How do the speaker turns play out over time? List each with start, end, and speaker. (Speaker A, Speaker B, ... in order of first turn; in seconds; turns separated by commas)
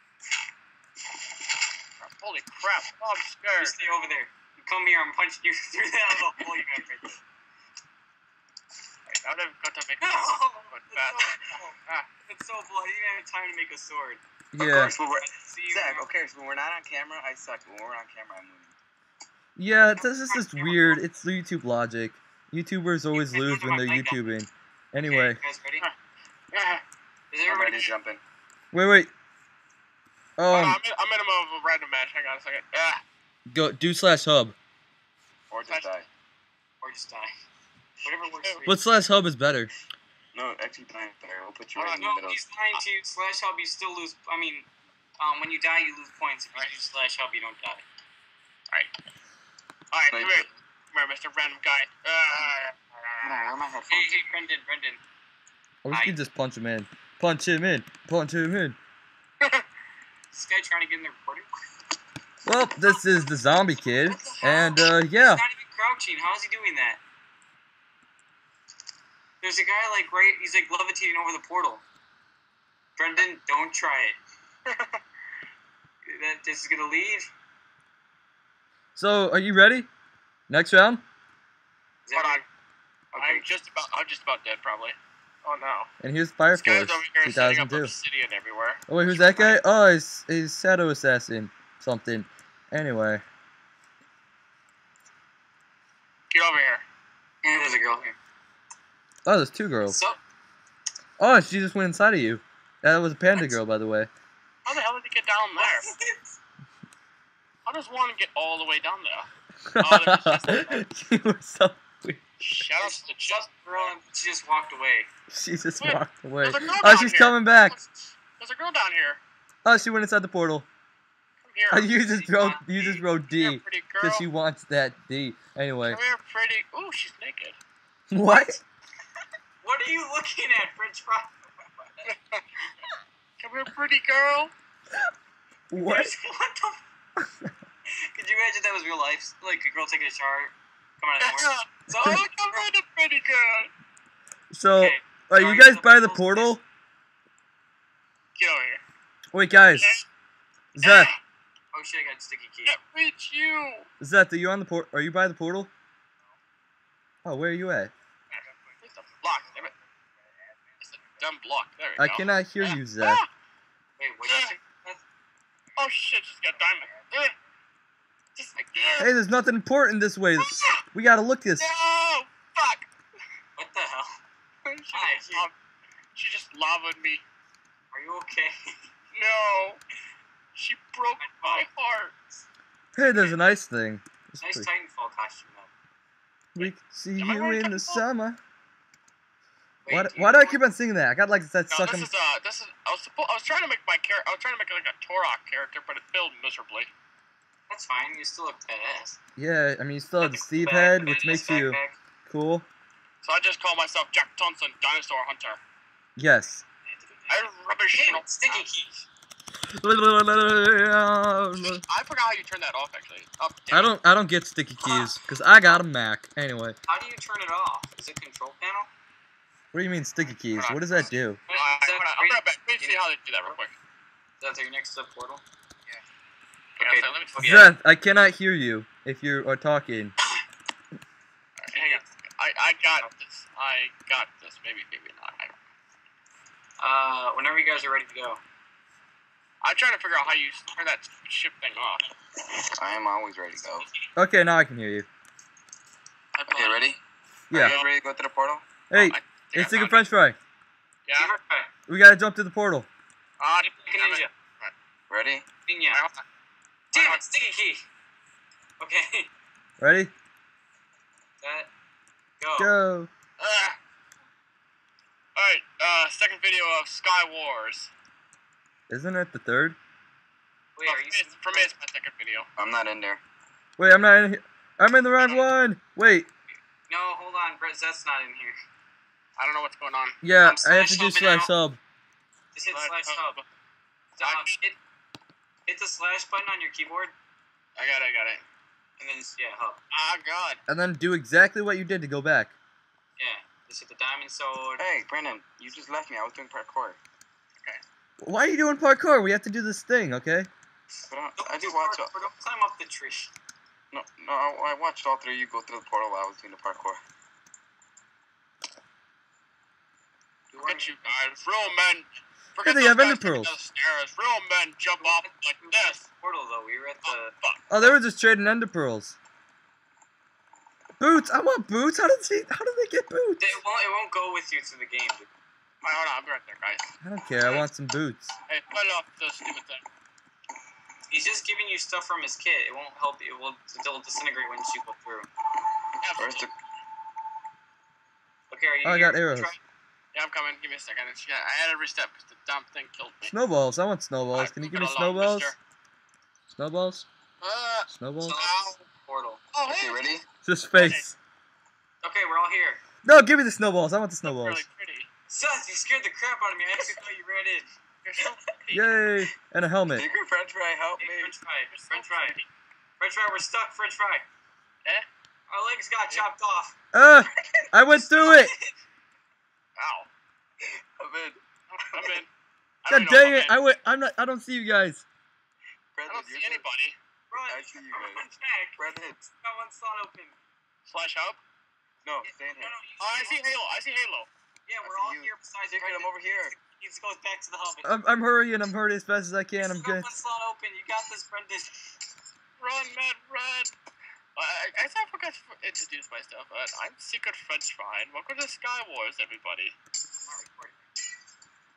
Speaker A: 2.0-3.8, Speaker B: 3.6-7.2, Speaker A: 9.1-12.1, Speaker B: 10.0-14.2, Speaker C: 14.5-14.9, Speaker D: 14.6-18.8, Speaker B: 15.2-16.1, Speaker C: 19.6-25.4, Speaker B: 20.0-21.0, Speaker B: 23.1-24.3, Speaker B: 25.1-25.9, Speaker A: 26.5-26.8, Speaker B: 27.3-27.9, Speaker D: 27.5-28.2, Speaker C: 28.7-29.1, Speaker C: 30.4-30.8, Speaker A: 30.5-33.0, Speaker C: 33.5-34.5, Speaker D: 35.5-36.0, Speaker A: 35.7-36.0, Speaker B: 36.8-37.3, Speaker B: 38.0-38.8, Speaker C: 38.7-39.7, Speaker D: 40.3-42.4, Speaker A: 41.8-42.1, Speaker B: 42.0-47.8, Speaker A: 49.9-53.4, Speaker D: 50.1-50.5, Speaker D: 53.2-54.1, Speaker B: 53.9-55.0, Speaker C: 55.8-58.8, Speaker B: 55.9-56.2, Speaker B: 60.3-61.5, Speaker C: 62.5-65.4, Speaker A: 64.1-64.4, Speaker B: 64.4-67.0, Speaker B: 69.4-71.8, Speaker B: 73.0-74.2, Speaker A: 74.7-75.0, Speaker B: 76.0-77.3, Speaker C: 79.0-79.9, Speaker C: 80.5-81.0, Speaker B: 82.1-82.4, Speaker A: 82.1-82.5, Speaker B: 83.1-83.5, Speaker A: 83.2-85.9, Speaker C: 86.0-87.9, Speaker A: 86.5-89.6, Speaker C: 88.9-93.2, Speaker A: 96.3-96.8, Speaker B: 97.4-98.2, Speaker C: 99.2-100.0, Speaker B: 99.9-100.2, Speaker C: 101.2-104.1, Speaker A: 104.7-105.9, Speaker B: 105.6-106.4, Speaker A: 107.7-109.3, Speaker C: 109.7-112.2, Speaker A: 109.8-110.8, Speaker A: 112.4-113.5, Speaker B: 112.8-115.1, Speaker C: 115.3-117.8, Speaker A: 115.8-119.2, Speaker C: 119.6-120.7, Speaker A: 121.4-121.9, Speaker C: 121.7-126.0, Speaker B: 122.0-123.0, Speaker A: 123.3-124.3, Speaker A: 125.9-127.6, Speaker C: 128.1-128.6, Speaker B: 129.6-131.3, Speaker A: 132.1-132.7, Speaker A: 133.4-134.5, Speaker C: 135.7-136.1, Speaker B: 135.8-136.8, Speaker C: 137.2-137.5, Speaker B: 138.0-142.7, Speaker A: 141.2-143.7, Speaker C: 141.9-142.2, Speaker C: 144.5-146.6, Speaker B: 144.8-146.6, Speaker A: 148.4-148.8, Speaker C: 149.3-150.0, Speaker A: 149.8-150.1, Speaker C: 150.8-151.1, Speaker A: 150.8-151.2, Speaker B: 151.7-152.8, Speaker A: 152.7-153.9, Speaker C: 154.0-155.7, Speaker C: 157.2-157.9, Speaker A: 158.3-159.7, Speaker A: 160.8-163.3, Speaker C: 162.0-163.2, Speaker B: 164.0-165.0, Speaker A: 164.3-164.6, Speaker A: 165.8-167.3, Speaker A: 168.4-169.1, Speaker B: 168.6-169.1, Speaker C: 169.0-171.7, Speaker A: 170.4-170.8, Speaker A: 171.6-172.9, Speaker B: 173.6-174.2, Speaker A: 174.7-175.6, Speaker B: 174.9-175.5, Speaker A: 176.2-177.2, Speaker B: 177.9-178.8, Speaker A: 179.1-179.8, Speaker A: 180.6-182.2, Speaker B: 181.2-181.7, Speaker C: 182.9-184.7, Speaker B: 184.4-185.7, Speaker C: 186.6-188.4, Speaker A: 186.6-188.0, Speaker B: 189.8-190.6, Speaker C: 189.9-192.1, Speaker A: 191.7-196.9, Speaker B: 197.7-199.2, Speaker C: 199.4-202.7, Speaker B: 200.2-202.0, Speaker A: 203.2-205.6, Speaker C: 206.2-206.6, Speaker B: 206.9-209.1, Speaker A: 207.3-208.6, Speaker C: 209.7-211.8, Speaker A: 211.8-213.9, Speaker C: 213.7-216.8, Speaker B: 216.9-218.9, Speaker C: 219.7-221.4, Speaker A: 220.6-223.7, Speaker B: 221.5-223.6, Speaker B: 224.4-225.4, Speaker A: 226.8-227.4, Speaker B: 226.8-227.7, Speaker C: 227.4-230.1, Speaker A: 231.6-235.5, Speaker B: 231.7-232.1, Speaker B: 236.8-238.4, Speaker A: 239.6-242.1, Speaker D: 242.5-243.9, Speaker C: 244.2-245.1, Speaker A: 246.3-246.9, Speaker D: 246.5-247.0, Speaker D: 247.5-248.7, Speaker A: 247.6-247.9, Speaker C: 248.9-250.4, Speaker A: 248.9-250.1, Speaker A: 251.1-251.3, Speaker B: 251.2-251.7, Speaker C: 251.9-252.9, Speaker A: 253.4-254.7, Speaker B: 253.8-254.3, Speaker D: 255.1-255.4, Speaker B: 255.7-256.1, Speaker A: 255.9-256.2, Speaker B: 256.9-257.9, Speaker A: 256.9-257.2, Speaker B: 258.8-259.3, Speaker C: 259.8-260.1, Speaker B: 261.4-261.7, Speaker B: 262.4-262.7, Speaker C: 262.6-263.1, Speaker A: 263.4-263.8, Speaker A: 265.4-267.9, Speaker C: 268.9-269.8, Speaker B: 270.8-271.7, Speaker A: 270.9-272.5, Speaker D: 272.6-273.2, Speaker C: 273.8-276.3, Speaker B: 276.9-278.6, Speaker A: 279.4-280.2, Speaker C: 280.2-281.8, Speaker B: 280.4-281.5, Speaker B: 282.5-283.4, Speaker A: 282.7-283.5, Speaker B: 284.2-284.8, Speaker A: 284.2-284.5, Speaker B: 285.7-287.1, Speaker A: 287.8-288.4, Speaker B: 289.0-289.8, Speaker A: 289.9-290.6, Speaker C: 290.7-292.5, Speaker B: 293.2-294.8, Speaker D: 294.8-297.0, Speaker C: 298.2-300.5, Speaker D: 301.1-302.2, Speaker B: 301.4-303.3, Speaker D: 303.9-307.0, Speaker B: 310.5-311.7, Speaker A: 310.6-316.0, Speaker C: 312.6-313.6, Speaker B: 315.0-317.3, Speaker A: 317.0-317.9, Speaker C: 317.7-319.2, Speaker C: 321.0-323.5, Speaker B: 323.4-325.3, Speaker A: 325.8-326.9, Speaker C: 327.0-328.3, Speaker A: 327.4-327.7, Speaker A: 328.5-329.9, Speaker B: 331.1-335.3, Speaker A: 336.0-336.5, Speaker D: 336.2-336.5, Speaker B: 338.5-339.6, Speaker C: 338.8-339.5, Speaker A: 340.1-343.4, Speaker C: 343.2-345.5, Speaker A: 344.3-345.6, Speaker C: 346.5-347.1, Speaker A: 347.4-348.8, Speaker C: 347.9-348.4, Speaker B: 348.2-349.4, Speaker A: 349.5-350.2, Speaker D: 349.7-350.2, Speaker C: 350.4-351.1, Speaker A: 350.8-351.1, Speaker B: 352.0-352.8, Speaker C: 353.0-354.6, Speaker A: 354.2-355.1, Speaker B: 355.3-357.7, Speaker A: 358.0-358.9, Speaker C: 358.7-360.1, Speaker D: 359.9-361.3, Speaker B: 361.0-362.4, Speaker A: 361.7-362.5, Speaker B: 363.0-364.2, Speaker B: 365.5-366.8, Speaker C: 366.9-368.5, Speaker B: 368.1-368.8, Speaker A: 369.8-370.1, Speaker D: 371.0-371.4, Speaker A: 371.7-372.3, Speaker D: 371.9-372.2, Speaker A: 372.9-373.6, Speaker C: 372.9-375.1, Speaker D: 375.9-376.6, Speaker A: 376.1-377.0, Speaker B: 377.3-380.4, Speaker D: 377.5-378.2, Speaker D: 378.8-379.2, Speaker A: 380.9-381.4, Speaker D: 382.1-382.8, Speaker B: 382.2-383.4, Speaker A: 383.0-384.3, Speaker B: 384.7-387.9, Speaker D: 384.8-386.6, Speaker C: 387.8-390.1, Speaker B: 389.6-391.9, Speaker A: 392.6-393.7, Speaker A: 394.4-399.8, Speaker B: 400.2-400.8